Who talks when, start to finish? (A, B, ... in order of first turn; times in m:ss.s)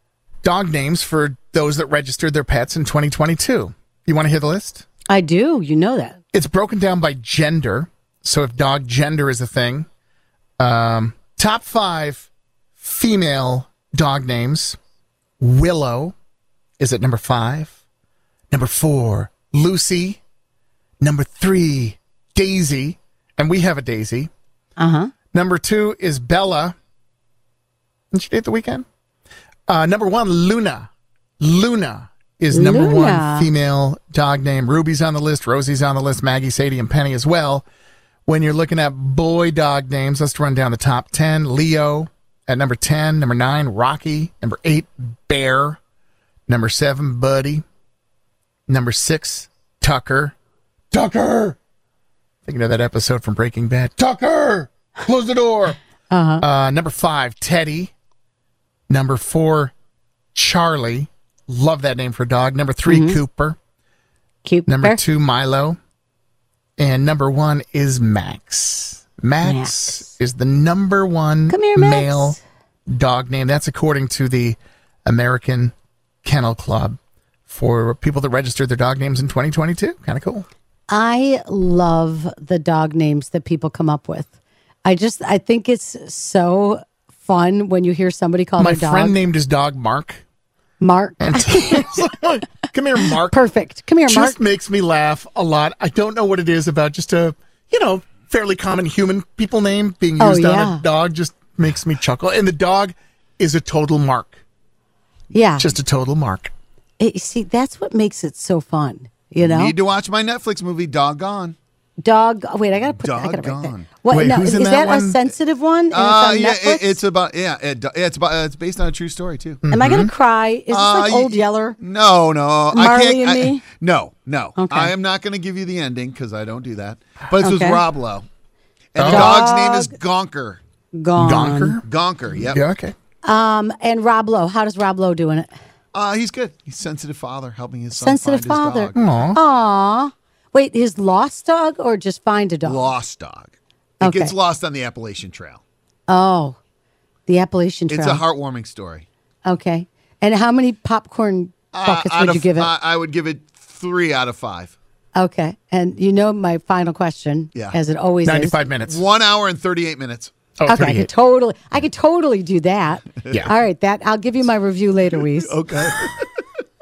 0:00.4-0:04.9 A
0:05.1-0:06.2 B
0:06.3-0:09.9 A
0:10.6-0:14.8 A
0:15.4-0:16.2 A
0:16.8-0:17.8 A
0:18.5-0:20.2 A
0:21.0-0:24.3 A
0:24.8-0:25.1 B
0:25.3-0:26.8 A
0:28.1-0:28.9 A
0:29.7-0:30.9 A
0:31.4-0:37.7 A
0:32.5-0:33.5 B
0:38.3-0:45.8 A
0:46.5-0:47.6 A
0:48.7-0:50.4 A
0:50.9-0:51.6 A
0:52.4-0:55.8 A
0:56.1-0:56.4 B
0:56.4-0:57.9 A
0:58.9-0:59.7 A
1:00.4-1:03.6 A
1:02.8-1:03.2 B
1:04.4-1:05.0 B
1:04.7-1:05.8 A
1:06.8-1:12.4 A
1:09.4-1:10.1 B
1:11.5-1:12.4 B
1:12.9-1:20.5 A
1:20.9-1:24.3 B
1:24.8-1:29.2 B
1:28.6-1:30.2 A
1:30.8-1:32.0 B
1:31.2-1:33.4 A
1:33.0-1:34.4 B
1:34.1-1:44.4 A
1:40.2-1:40.8 B
1:45.3-1:45.7 B
1:45.6-1:46.5 A
1:47.0-1:49.7 B
1:49.4-1:51.6 C
1:52.0-1:57.0 B
1:52.8-1:53.9 C
1:54.1-1:55.2 A
1:55.9-1:59.6 C
1:59.6-2:00.1 A
1:59.7-2:01.8 B
2:00.7-2:08.3 C
2:02.7-2:03.6 B
2:04.6-2:04.9 B
2:07.4-2:07.8 B
2:08.9-2:10.6 C
2:09.0-2:09.4 A
2:09.0-2:09.9 B
2:10.9-2:11.8 B
2:11.2-2:11.8 A
2:11.8-2:12.6 C
2:12.4-2:13.0 A
2:13.2-2:15.5 B
2:15.9-2:19.0 C
2:18.0-2:23.0 B
2:19.0-2:19.4 A
2:22.6-2:25.6 C
2:24.0-2:24.3 B
2:26.1-2:26.6 B
2:27.3-2:28.2 B
2:27.9-2:29.1 C
2:29.4-2:32.7 B
2:31.7-2:34.8 C
2:35.2-2:38.6 B
2:38.2-2:39.0 A
2:38.9-2:40.3 C
2:40.6-2:41.1 A
2:40.7-2:45.6 B
2:43.2-2:43.5 C
2:45.3-2:46.2 C